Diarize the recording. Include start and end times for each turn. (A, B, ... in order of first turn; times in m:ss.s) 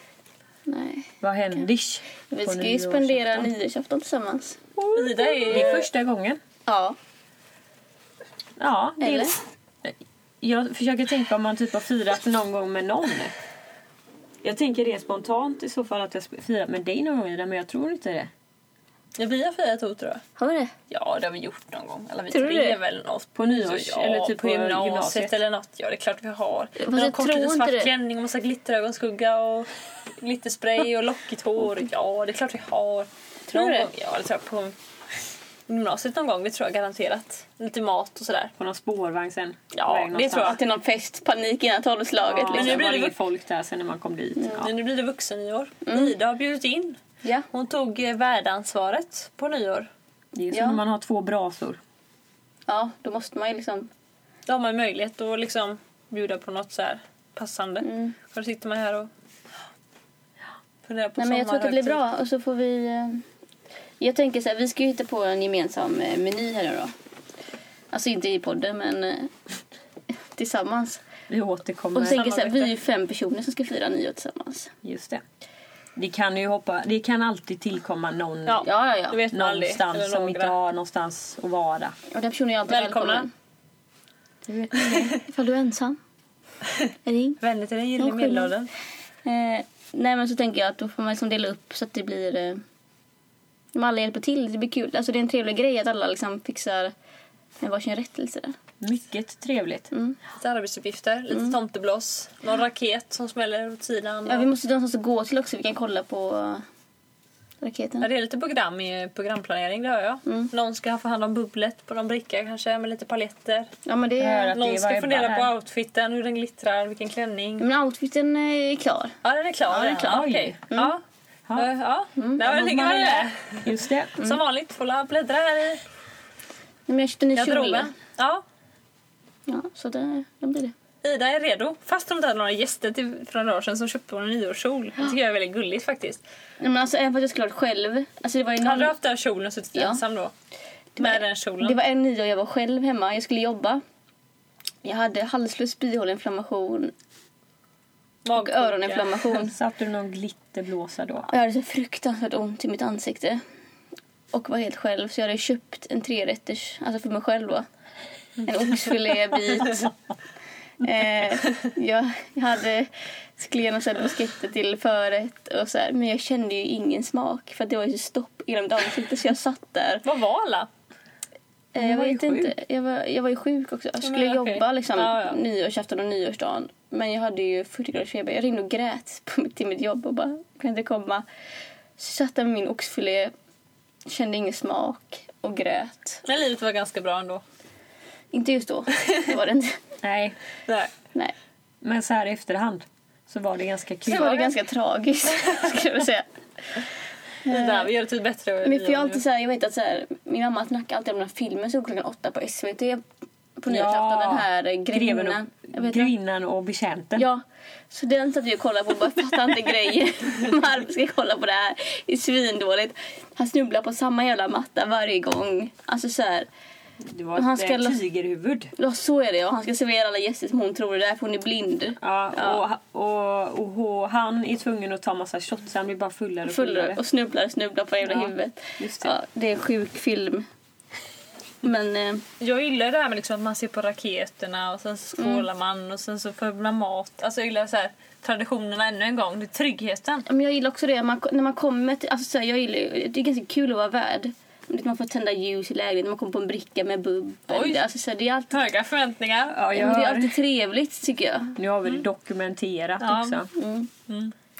0:00.7-0:01.6 A
0:01.2-0:03.5 B
0:02.3-0:04.6 A
0:04.8-0:06.4 B
0:04.9-0:05.9 C
0:06.6-0:07.0 A
0:08.6-0:13.3 B
0:09.0-0:09.4 A
0:14.4-0:18.3 B
0:19.2-0:20.2 C
0:20.4-0:20.7 A
0:20.9-0:34.7 C
0:22.3-0:22.8 A
0:23.3-0:25.4 B
0:26.8-0:27.9 A
0:33.5-0:33.9 A
0:35.7-0:38.5 C
0:38.6-0:40.6 B
0:39.7-0:40.6 C
0:40.4-0:42.8 A
0:42.2-0:44.7 B
0:42.5-0:43.2 C
0:44.6-0:47.0 C
0:45.8-0:46.1 A
0:47.5-0:49.9 C
0:50.4-0:51.8 B
0:50.5-0:50.8 A
0:52.7-0:53.9 A
0:54.5-0:59.1 C
0:57.8-0:58.1 A
1:00.8-1:02.0 C
1:01.2-1:03.2 A
1:04.0-1:06.9 A
1:07.9-1:09.3 A
1:10.3-1:11.0 A
1:11.3-1:12.2 B
1:11.9-1:14.7 A
1:12.1-1:12.7 C
1:14.8-1:15.2 B
1:16.0-1:18.6 B
1:18.4-1:20.5 C
1:18.6-1:19.2 A
1:19.3-1:22.0 B
1:22.1-1:23.3 A
1:22.7-1:23.3 C
1:24.5-1:25.2 B
1:25.0-1:26.0 A
1:27.0-1:27.4 A
1:27.4-1:28.7 C
1:28.0-1:28.5 A
1:29.2-1:32.6 A
1:33.7-1:36.9 A
1:37.6-1:38.6 A
1:38.8-1:39.9 B
1:40.4-1:44.5 C
1:44.2-1:46.6 A
1:47.6-1:48.1 A
1:48.0-1:53.7 C
1:53.8-1:54.5 A
1:54.2-1:55.5 B
1:54.5-1:57.6 C
1:57.6-2:01.0 A
1:59.2-2:01.0 C
1:59.9-2:00.6 B
2:01.6-2:05.8 C
2:02.2-2:02.4 A
2:02.4-2:04.2 B
2:06.9-2:07.9 A
2:07.4-2:08.4 C
2:09.5-2:10.7 A
2:11.0-2:16.2 C
2:16.6-2:19.0 A
2:18.6-2:20.3 C
2:19.7-2:20.0 A
2:21.0-2:23.8 A
2:21.0-2:21.8 C
2:24.8-2:26.9 A
2:28.2-2:29.2 C
2:28.3-2:29.5 A
2:29.3-2:31.3 B
2:31.3-2:33.4 A
2:34.3-2:37.6 A
2:38.4-2:39.9 A
2:40.8-2:50.0 A
2:50.0-2:50.7 C
2:51.7-3:01.2 A
2:51.8-2:52.5 B
2:54.0-2:55.4 C
3:02.0-3:03.3 A
3:04.1-3:06.2 A
3:06.2-3:07.4 C
3:08.3-3:09.8 A
3:10.0-3:10.4 B
3:11.8-3:14.4 B
3:14.0-3:16.2 A
3:17.4-3:17.9 A
3:17.5-3:19.2 C
3:18.6-3:23.0 A
3:23.6-3:26.1 A
3:23.7-3:27.2 B
3:27.2-3:36.5 A
3:37.0-3:38.7 B
3:37.3-3:38.0 A
3:38.8-3:42.6 A
3:42.0-3:47.0 B
3:46.4-3:50.4 A
3:48.0-3:49.1 B
3:51.6-3:52.2 A
3:52.4-4:00.2 C
3:55.2-3:55.4 A
4:00.3-4:08.5 A
4:07.5-4:07.8 C
4:08.5-4:09.6 C
4:09.5-4:10.3 B
4:09.7-4:11.6 A
4:11.6-4:13.5 B
4:13.0-4:13.5 C
4:13.5-4:13.9 A
4:14.1-4:14.3 C